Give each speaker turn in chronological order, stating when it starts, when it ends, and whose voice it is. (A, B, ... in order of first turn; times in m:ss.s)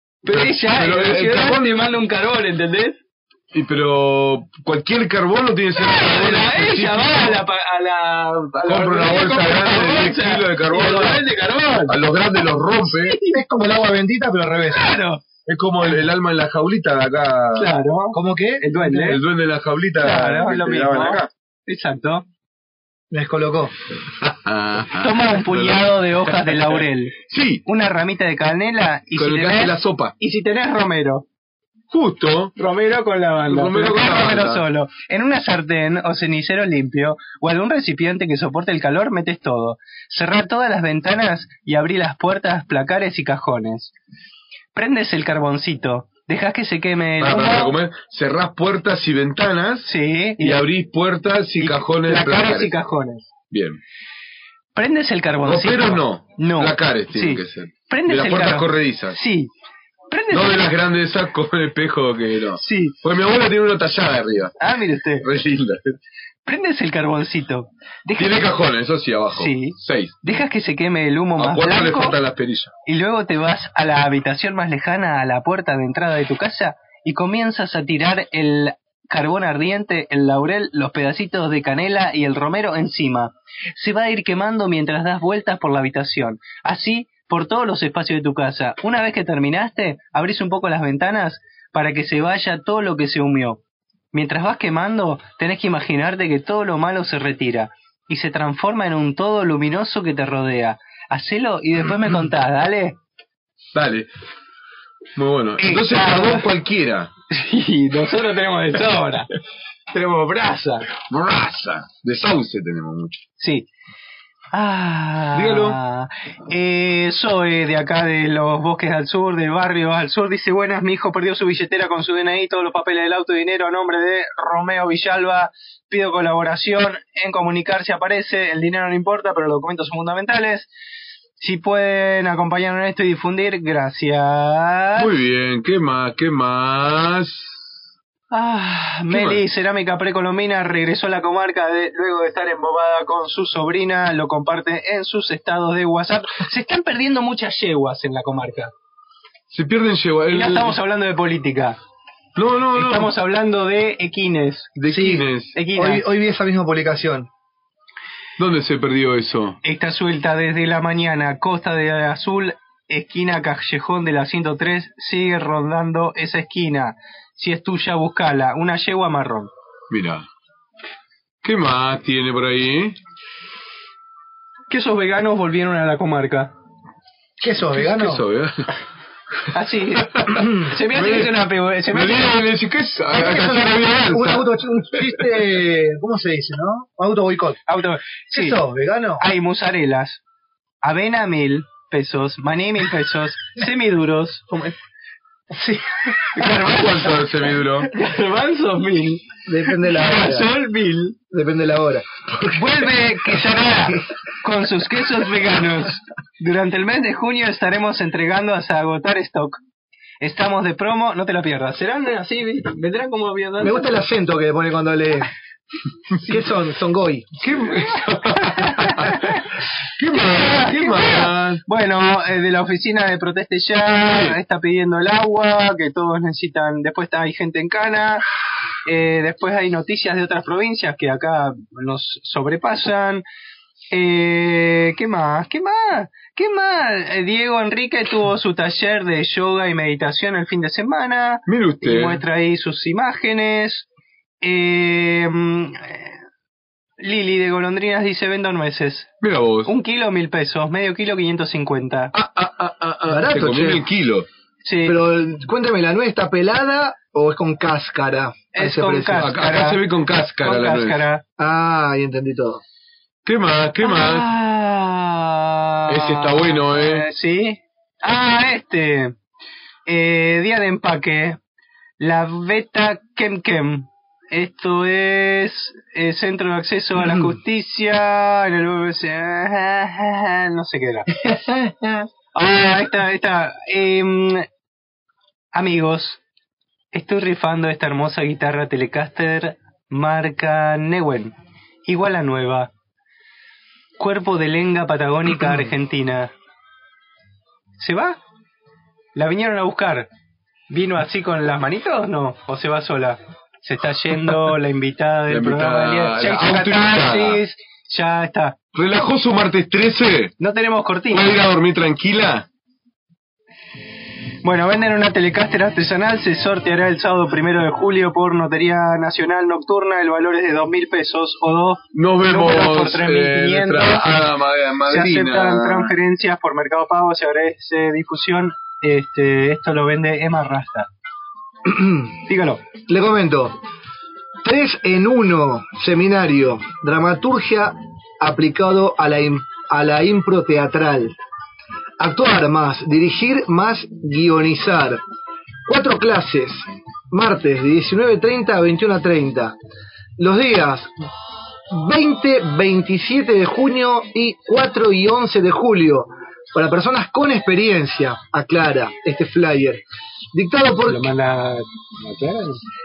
0:00.2-0:03.0 A
0:00.3-0:01.7 B
0:03.5-0:07.4 B
0:05.8-0:12.0 A
0:08.7-0:11.2 B
0:11.9-0:13.2 B
0:12.9-0:13.4 A
0:13.3-0:14.9 C
0:14.7-0:15.2 A
0:15.5-0:17.7 B
0:17.6-0:19.2 A
0:18.1-0:18.7 C
0:18.8-0:21.3 B
0:20.0-0:22.2 A
0:23.1-0:23.8 C
0:24.2-0:27.6 B
0:25.0-0:31.2 A
0:29.2-0:30.1 B
0:31.9-0:32.5 B
0:32.6-0:43.9 A
0:33.5-0:34.6 B
0:44.8-0:47.7 A
0:47.2-0:52.7 B
0:49.8-0:50.7 A
0:51.6-0:53.3 A
0:53.5-0:53.8 B
0:54.8-0:59.5 A
0:55.4-0:59.2 B
1:00.1-1:00.7 A
1:00.3-1:04.6 B
1:02.6-1:03.0 A
1:04.6-1:05.3 A
1:05.2-1:06.0 B
1:06.5-1:08.5 A
1:08.2-1:10.2 B
1:09.4-1:12.2 A
1:11.4-1:12.7 B
1:12.9-1:33.6 A
1:34.1-1:43.0 A
1:43.7-1:44.1 B
1:45.2-1:47.1 B
1:45.6-1:46.5 A
1:47.3-1:49.3 A
1:49.9-1:50.9 A
1:51.0-1:53.2 B
1:53.4-1:53.7 A
1:54.5-2:10.7 A
1:55.3-1:55.8 B
2:11.4-2:15.1 A
2:15.0-2:17.7 B
2:18.3-2:28.7 A
2:19.1-2:19.4 B
2:29.5-2:30.8 B
2:30.3-2:31.8 A
2:32.4-2:33.1 B
2:32.7-2:36.0 A
2:34.8-2:35.6 B
2:34.9-2:35.2 C
2:35.8-2:37.3 C
2:38.4-2:39.6 B
2:39.6-2:49.5 A
2:49.9-2:50.2 B
2:51.4-2:53.0 B
2:54.7-2:56.5 A
2:57.4-2:58.2 C
2:57.8-2:58.7 B
2:59.5-3:02.4 A
3:00.1-3:01.3 B
3:01.9-3:04.5 B
3:03.1-3:07.6 C
3:07.7-3:08.6 A
3:08.3-3:09.2 C
3:09.2-3:10.2 A
3:10.8-3:14.8 A
3:16.3-3:17.1 A
3:16.4-3:17.9 B
3:17.9-3:21.2 A
3:19.5-3:20.5 C
3:21.3-3:22.8 C
3:22.5-3:29.6 A
3:30.2-3:33.9 A
3:33.6-3:35.3 C
3:36.3-3:37.5 C
3:37.4-3:39.4 B
3:38.4-3:39.4 A
3:40.0-3:41.6 B
3:40.1-3:48.2 A
3:48.9-3:53.2 A
3:53.9-4:03.9 A
4:01.5-4:02.2 B
4:04.4-4:06.2 A
4:07.0-4:09.1 A
4:09.2-4:09.7 B
4:09.7-4:12.1 A
4:12.1-4:14.3 B
4:13.1-4:13.8 C
4:14.6-4:15.0 A
4:14.8-4:19.3 C
4:18.5-4:19.8 A
4:19.1-4:21.0 B
4:20.4-4:21.2 A
4:21.4-4:22.6 C
4:23.3-4:24.3 B
4:23.8-4:29.2 A
4:25.9-4:27.1 B
4:29.9-4:31.4 A
4:32.0-4:41.1 A
4:41.5-4:41.9 C
4:42.4-4:44.5 A
4:45.5-4:46.2 A
4:46.9-4:51.3 A
4:51.8-4:52.7 A
4:54.0-4:56.3 A
4:57.8-4:58.2 A
4:59.2-5:00.1 A
5:00.7-5:08.6 A
5:05.3-5:07.4 B
5:08.8-5:10.3 B
5:10.4-5:11.3 A
5:11.1-5:12.5 B
5:14.4-5:24.1 A
5:21.9-5:25.9 B
5:24.9-5:30.9 A
5:31.7-5:32.1 C
5:32.3-5:32.6 A
5:32.9-5:33.6 C
5:34.4-5:41.2 C
5:42.0-5:45.0 C
5:45.7-5:49.6 C
5:50.2-5:50.9 C
5:51.7-5:59.8 C
6:00.3-6:01.0 C
6:00.9-6:02.6 A